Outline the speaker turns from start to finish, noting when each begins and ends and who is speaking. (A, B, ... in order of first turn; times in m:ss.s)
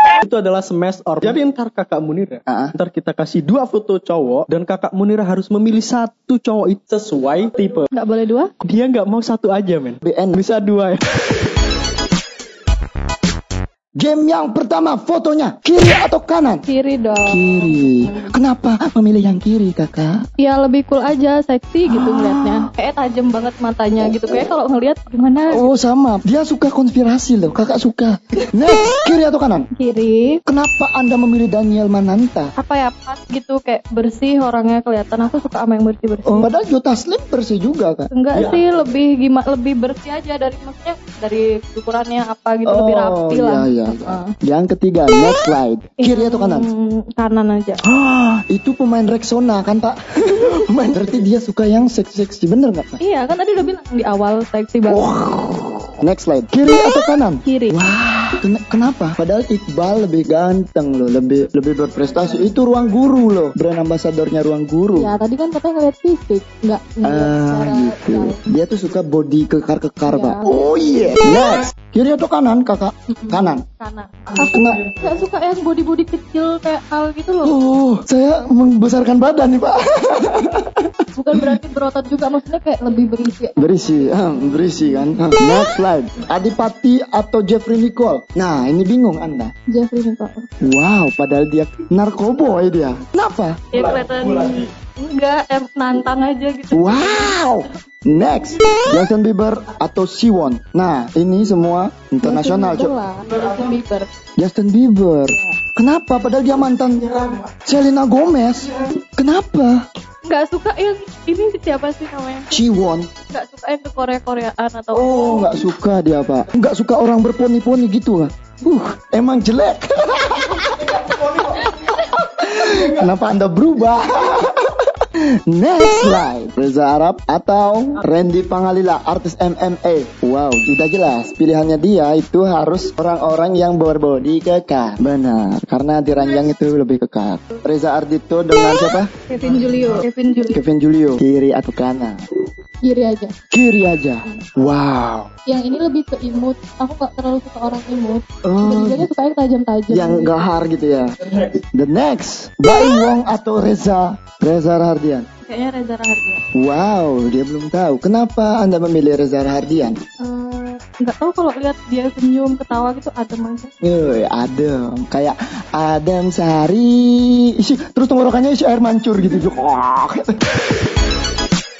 0:00.2-0:07.9 A
0:02.5-0:02.7 B
0:07.9-0:08.5 C
0:08.6-0:11.0 A
0:10.0-0:10.4 B
0:14.0-0:16.6 B
0:16.7-0:17.4 C
0:17.2-0:20.2 B
0:20.4-0:25.7 C
0:21.9-0:22.7 B
0:24.0-0:24.4 B
0:25.5-0:29.7 B
0:29.7-0:30.4 C
0:30.4-0:32.5 B
0:32.6-0:36.5 C
0:36.2-0:38.1 B
0:38.1-0:44.3 C
0:38.3-0:38.8 A
0:42.6-0:46.7 B
0:46.0-0:47.8 C
0:47.8-0:53.0 B
0:53.0-0:55.1 C
0:54.9-1:05.1 B
0:57.4-0:57.8 C
1:04.9-1:08.4 C
1:07.0-1:13.6 B
1:10.1-1:11.0 C
1:13.1-1:17.5 C
1:14.3-1:14.9 B
1:17.4-1:21.5 B
1:21.1-1:24.7 C
1:23.6-1:29.5 B
1:29.7-1:30.5 C
1:30.6-1:33.7 B
1:33.7-1:37.4 C
1:36.7-1:42.9 B
1:42.2-1:44.1 C
1:44.4-1:49.8 B
1:45.3-1:45.6 C
1:50.2-1:52.6 C
1:52.5-1:53.1 B
1:53.3-1:55.6 C
1:54.9-2:19.1 B
2:01.0-2:01.6 A
2:19.3-2:20.6 C
2:20.5-2:22.2 B
2:22.8-2:23.4 C
2:23.5-2:25.3 B
2:25.4-2:30.4 C
2:28.4-2:29.1 B
2:29.9-2:35.3 B
2:35.4-2:36.4 C
2:36.5-2:40.0 B
2:40.2-2:43.7 C
2:43.8-2:50.6 B